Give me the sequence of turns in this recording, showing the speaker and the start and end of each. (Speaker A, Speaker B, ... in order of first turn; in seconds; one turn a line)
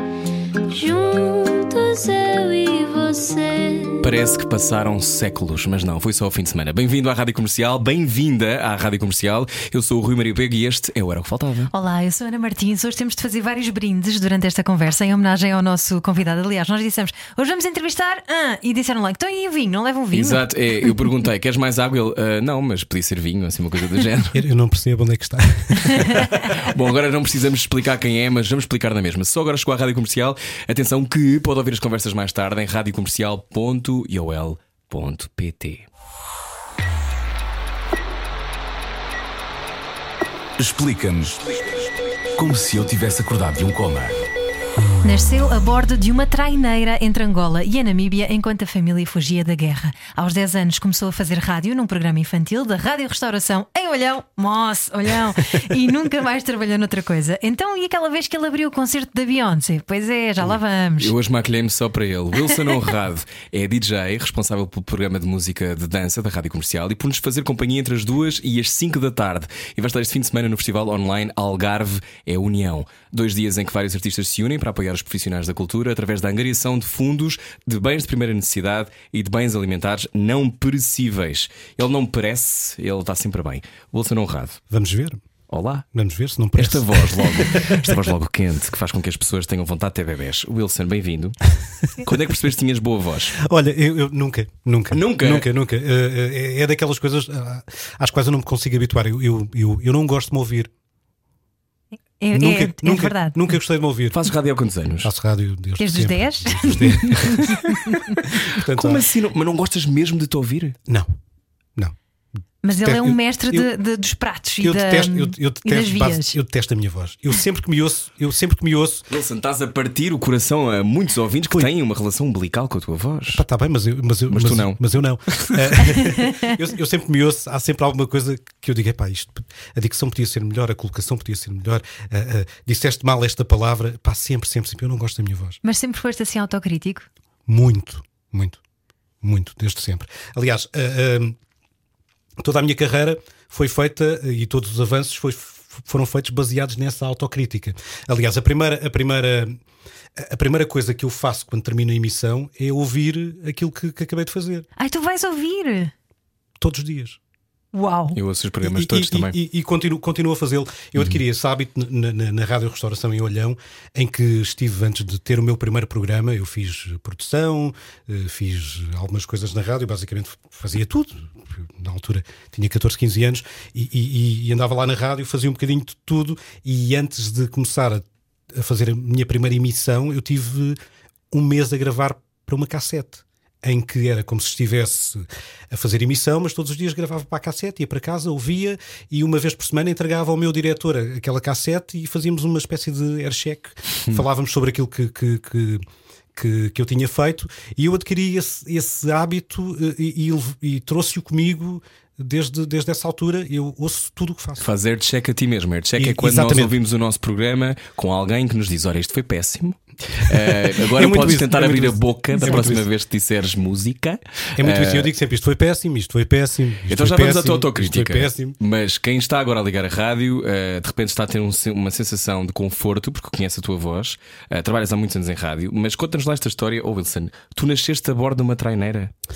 Speaker A: 0.7-4.1
Speaker B: 4.0-11.7
Speaker C: 11.7-20.4
Speaker B: 20.1-24.4
Speaker D: 24.3-26.4
Speaker C: 25.8-26.4
Speaker B: 25.9-35.9
Speaker E: 40.6-44.3
Speaker C: 45.0-61.1
Speaker B: 60.4-84.6
Speaker D: 84.7-85.2
Speaker B: 85.5-85.8
Speaker D: 85.9-88.1
Speaker B: 86.5-93.4
Speaker D: 93.4-100.7
Speaker B: 94.9-95.5
Speaker C: 102.2-103.4
Speaker D: 102.3-104.2
Speaker B: 104.1-105.1
Speaker D: 105.0-107.5
Speaker C: 105.8-108.2
Speaker B: 108.2-110.8
Speaker D: 108.3-109.0
Speaker D: 110.9-111.1
Speaker C: 112.6-116.4
Speaker D: 112.7-113.7
Speaker D: 114.6-119.1
Speaker B: 119.1-123.4
Speaker D: 123.3-135.6
Speaker B: 124.3-125.8
Speaker C: 126.2-126.5
Speaker C: 135.6-137.1
Speaker D: 137.5-138.6
Speaker D: 139.2-141.4
Speaker D: 142.4-149.6
Speaker D: 150.2-154.7
Speaker C: 154.8-155.9
Speaker D: 156.6-157.2
Speaker C: 157.7-158.2
Speaker B: 158.1-159.3
Speaker D: 158.6-180.8
Speaker D: 181.3-195.8
Speaker D: 196.3-204.7
Speaker B: 204.6-215.1
Speaker D: 206.0-206.7
Speaker D: 210.2-212.8
Speaker C: 212.3-212.7
Speaker D: 214.6-218.6
Speaker B: 216.9-229.1